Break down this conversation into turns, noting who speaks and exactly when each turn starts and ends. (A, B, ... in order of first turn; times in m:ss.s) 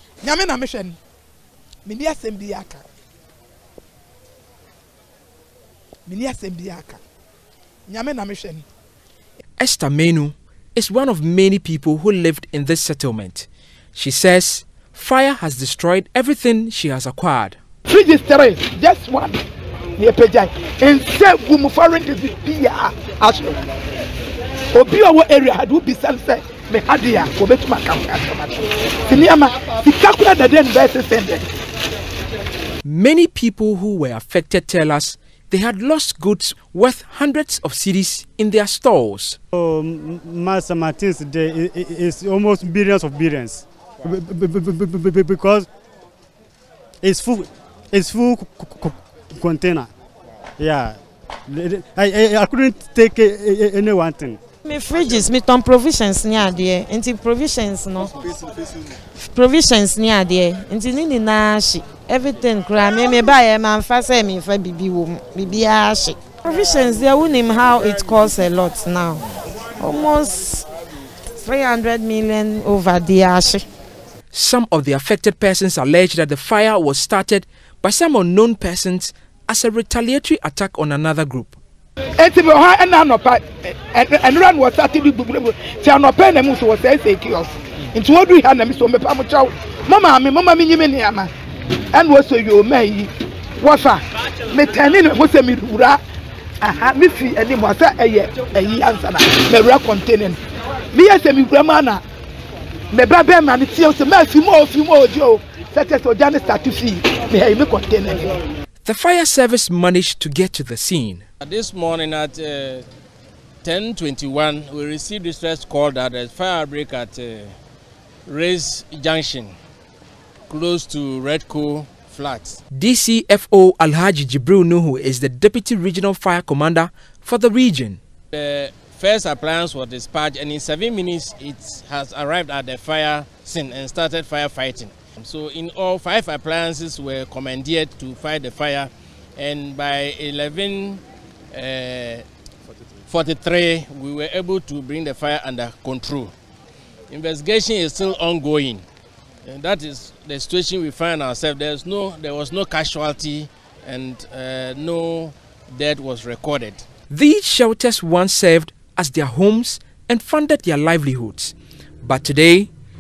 0:00.2-0:01.0 A
0:01.8-0:02.8 A
0:06.1-0:07.0 A
0:07.9-0:08.6 A
0:09.6-0:17.6 B
0:17.9-0:19.4 A
0:20.0-0:23.6 A
0:24.7-0:31.5 A
0:32.8-0:39.4 B
0:39.5-0:45.7 C
0:47.0-0:49.9 C
0:50.6-0:54.4 C
0:54.6-0:58.2 D
0:59.2-1:10.7 D
1:11.4-1:13.6 D
1:14.3-1:21.6 B
1:22.2-1:31.3 A
1:31.9-1:36.0 A
1:36.6-1:40.4 A
1:40.9-1:42.0 A
1:42.9-1:48.4 A
1:48.8-1:51.2 B
1:51.4-1:52.9 E
1:53.6-1:57.5 E
1:58.3-1:59.5 E
2:00.5-2:02.6 E
2:02.7-2:08.0 B
2:08.3-2:22.2 E
2:23.1-2:26.3 E
2:27.1-2:28.8 E
2:29.4-2:36.8 E
2:37.1-2:42.7 B